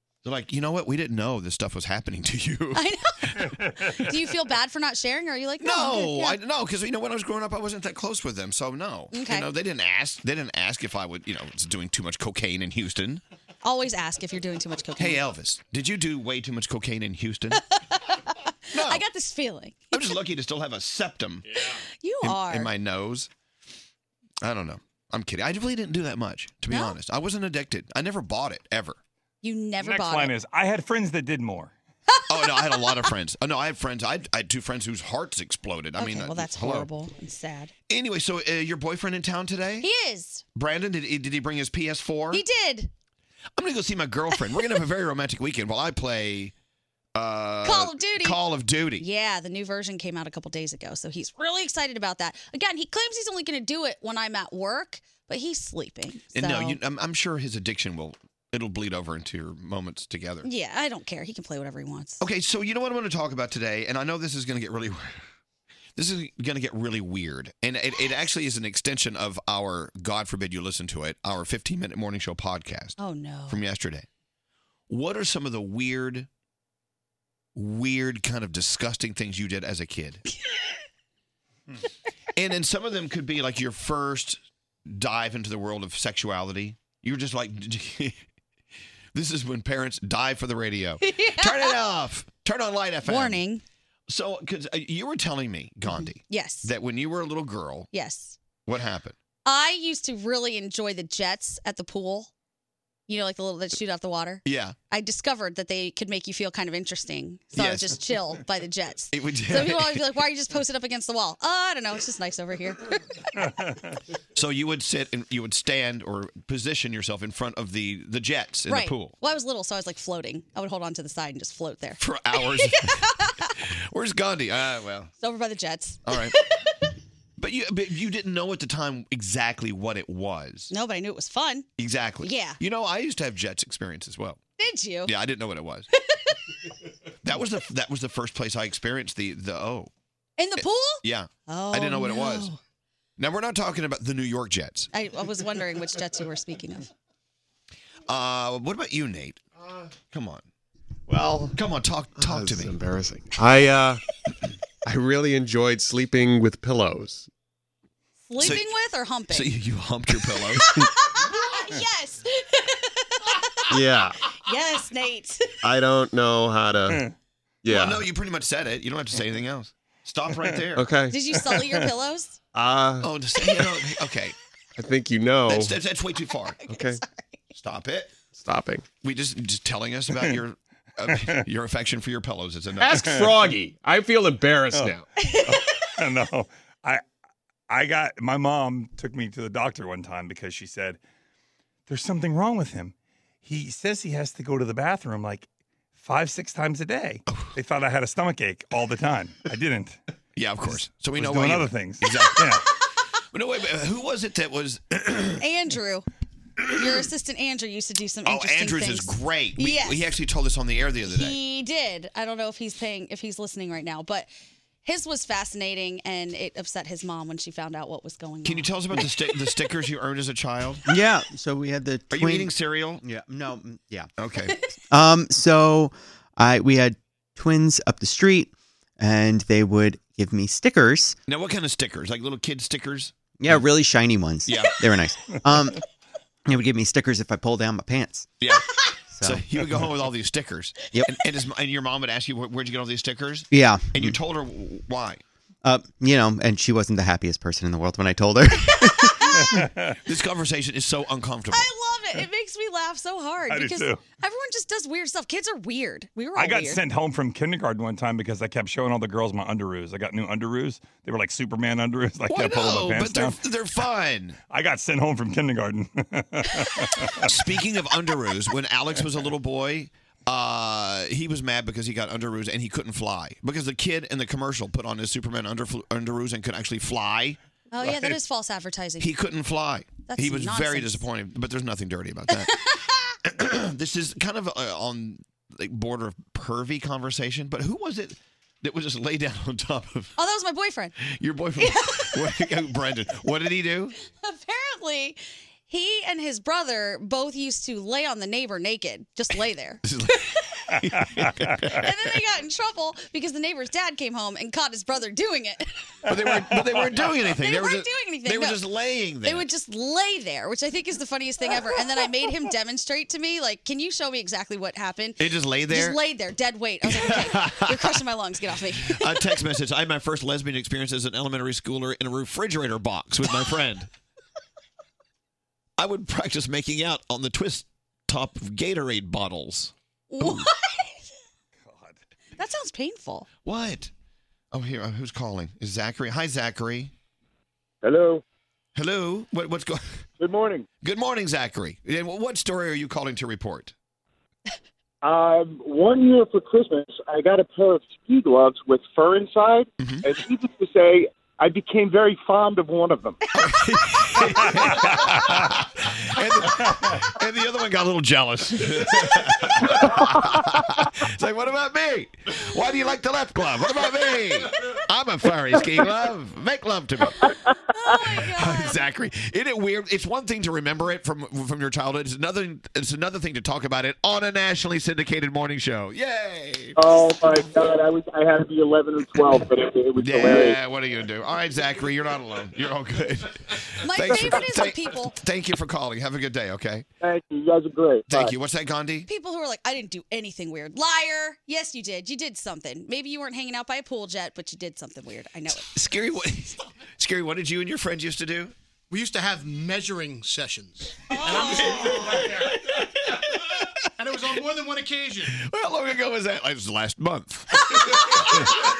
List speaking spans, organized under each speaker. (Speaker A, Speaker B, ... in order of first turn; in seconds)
Speaker A: 0.2-2.8, 5.6-13.2, 15.0-17.6, 18.7-19.0, 19.9-21.6, 22.2-23.3, 24.4-29.0, 32.3-36.9, 37.9-39.9, 40.5-42.4, 43.6-46.5, 47.1-49.0, 56.3-60.5, 62.2-65.2, 66.0-73.0, 73.5-74.1, 74.9-76.3, 77.5-80.2, 82.3-88.2, 89.1-93.4, 94.1-97.9, 98.7-99.2, 104.4-104.8, 107.5-108.0, 109.1-110.0, 114.3-119.1, 122.0-123.0, 123.6-125.1, 126.0-126.3, 127.4-130.7, 131.8-134.4, 135.1-135.9, 137.2-139.9, 140.6-142.5, 143.2-144.9, 148.1-149.4, 150.1-150.4, 151.5-152.8, 158.4-158.7, 159.3-160.8, 167.7-170.9, 173.0-174.3, 175.5-176.6, 177.5-178.1, 179.0-183.1, 200.3-202.6, 203.3-205.4, 208.2-211.4, 218.4-220.8, 222.1-223.0, 224.2-224.6, 231.3-233.6, 234.5-234.7, 239.2-245.2, 250.1-251.7, 262.3-264.4, 267.2-277.4, 279.0-282.6, 283.2-290.1, 291.0-293.9, 299.8-301.9, 306.1-309.5, 315.2-316.0, 316.8-318.0, 318.8-323.9, 325.8-330.5, 333.4-333.9, 334.5-336.9, 338.7-339.8, 340.8-343.7, 349.8-350.1, 353.3-367.3, 368.2-376.8, 379.9-386.9, 388.1-389.1, 395.6-398.5, 401.5-401.9, 405.3-407.6
Speaker B: 2.7-6.4, 9.1-9.5, 13.6-15.2, 17.9-18.2, 18.7-20.1, 22.0-22.7, 26.7-26.9, 29.4-30.4, 32.1-33.1, 36.0-37.7, 39.8-40.4, 42.3-42.9, 47.6-48.4, 49.0-56.8, 60.4-62.2, 73.0-73.6, 91.1-91.7, 93.0-93.6, 95.8-96.7, 97.9-98.4, 99.4-102.3, 103.1-113.0, 118.7-123.5, 125.2-126.2, 130.7-131.7, 132.2-132.6, 134.6-135.1, 140.4-142.6, 144.9-146.9, 158.2-159.5, 160.6-163.8, 164.4-165.5, 171.1-172.4, 176.7-177.4, 185.3-185.5, 205.4-206.1, 206.7-210.1, 211.1-214.3, 214.8-219.1, 251.5-256.8, 277.7-279.1, 280.1-281.0, 282.3-282.9, 290.2-290.9, 291.6-292.2, 294.2-299.8, 301.8-305.9, 307.2-308.6, 309.2-319.2, 330.1-331.0, 332.4-333.3, 367.7-368.8, 383.8-385.1, 389.1-395.7
Speaker C: 29.8-31.7, 113.5-113.8, 182.9-183.3, 184.7-187.0, 187.7-191.0, 191.9-200.0, 201.1-202.6, 249.3-250.0, 253.5-254.0, 256.4-263.4, 264.5-267.3, 277.8-278.1, 331.7-331.9, 354.6-355.4
Speaker D: 151.1-151.6, 152.2-154.0, 154.8-157.3, 163.7-164.2, 165.6-167.0, 167.6-168.1, 170.7-171.2, 172.5-173.1, 174.8-175.8, 176.7-177.0, 178.3-178.8, 182.8-185.1
Speaker E: 220.8-224.1, 224.9-231.2, 233.4-235.8, 236.4-238.3, 239.1-239.4, 243.5-244.2, 245.6-249.3
Speaker F: 337.8-338.2, 340.2-340.6, 345.0-353.2, 376.8-380.6, 387.0-388.3
Speaker G: 398.9-402.6, 404.0-405.3